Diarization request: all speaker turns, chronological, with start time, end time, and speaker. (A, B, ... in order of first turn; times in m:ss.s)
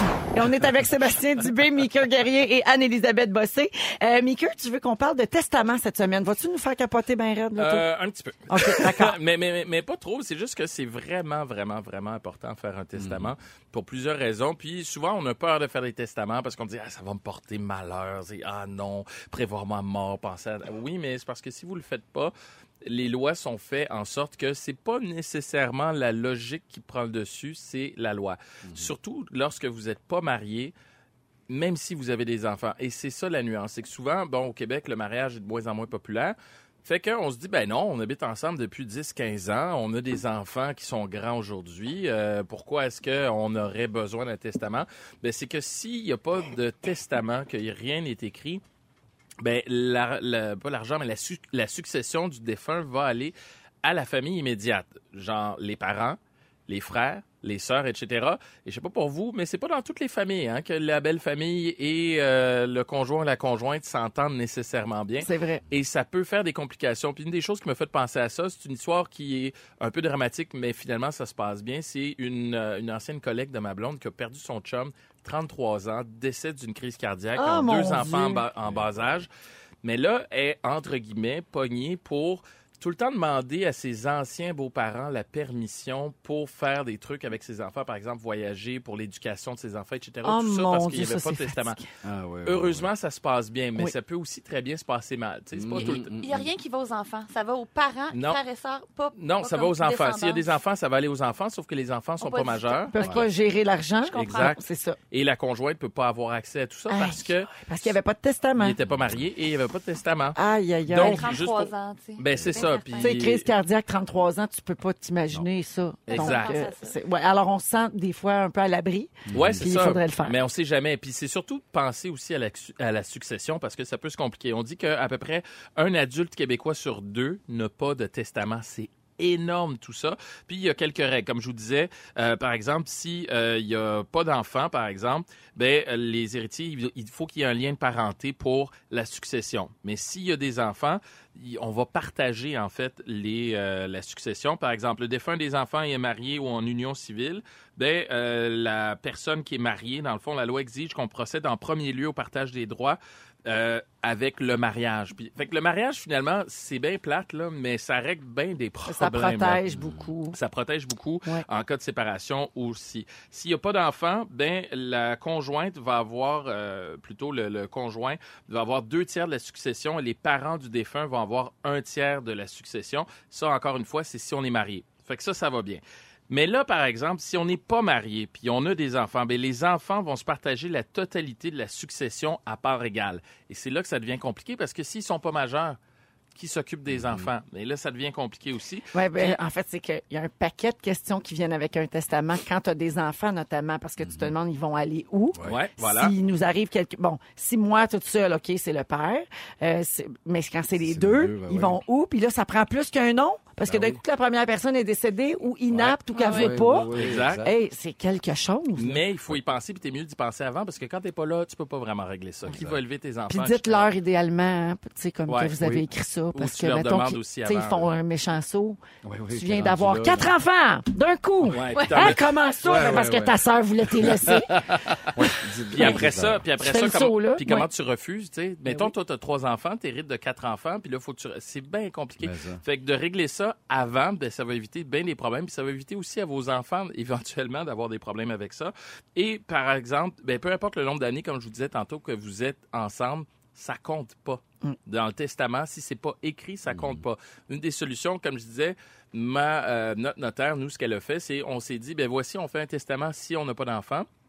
0:00.3-0:07.8 A
0:07.6-0:22.3 B
0:08.5-0:09.2 A
0:13.0-0:13.3 C
0:22.8-0:30.7 B
0:28.6-0:28.9 C
0:31.5-0:48.6 B
0:49.4-1:19.3 B
1:05.2-1:05.6 A
1:17.4-1:18.4 A
1:18.7-1:19.0 C
1:19.8-1:31.8 B
1:30.2-1:31.8 A
1:32.0-1:32.9 C
1:32.4-1:36.1 B
1:35.5-1:36.5 C
1:36.0-1:40.5 D
1:38.1-1:38.4 B
1:39.2-1:43.1 B
1:42.2-1:43.2 D
1:42.9-1:45.0 A
1:44.1-1:44.5 D
1:44.2-1:47.9 B
1:46.9-1:48.8 A
1:48.6-1:50.4 B
1:48.9-1:49.2 C
1:50.4-1:51.3 A
1:50.9-1:53.5 B
1:50.9-1:53.2 D
1:53.0-2:00.4 A
1:56.1-1:56.6 B
1:56.1-1:57.0 D
1:59.3-1:59.7 C
1:59.3-2:39.6 B
2:38.9-2:40.4 A
2:39.7-2:40.1 C
2:40.3-3:05.8 B
3:06.4-3:09.4 B
3:06.9-3:07.3 C
3:08.9-3:29.0 A
3:14.0-3:14.3 C
3:15.3-3:15.6 C
3:15.4-3:16.1 B
3:20.8-3:21.8 C
3:23.7-3:24.0 C
3:25.7-3:27.5 C
3:26.1-3:26.5 D
3:26.9-3:27.4 B
3:28.8-3:33.9 B
3:32.5-3:32.8 C
3:33.3-3:38.8 A
3:35.3-3:35.6 B
3:35.6-3:35.8 C
3:36.4-3:37.9 B
3:39.0-3:40.3 C
3:39.3-3:44.5 A
3:41.5-3:42.2 B
3:41.7-3:42.0 D
3:42.6-3:43.4 C
3:44.3-3:45.1 B
3:45.1-3:46.4 C
3:45.7-4:14.1 B
3:46.6-3:47.7 A
3:52.2-3:52.6 C
4:06.7-4:07.0 C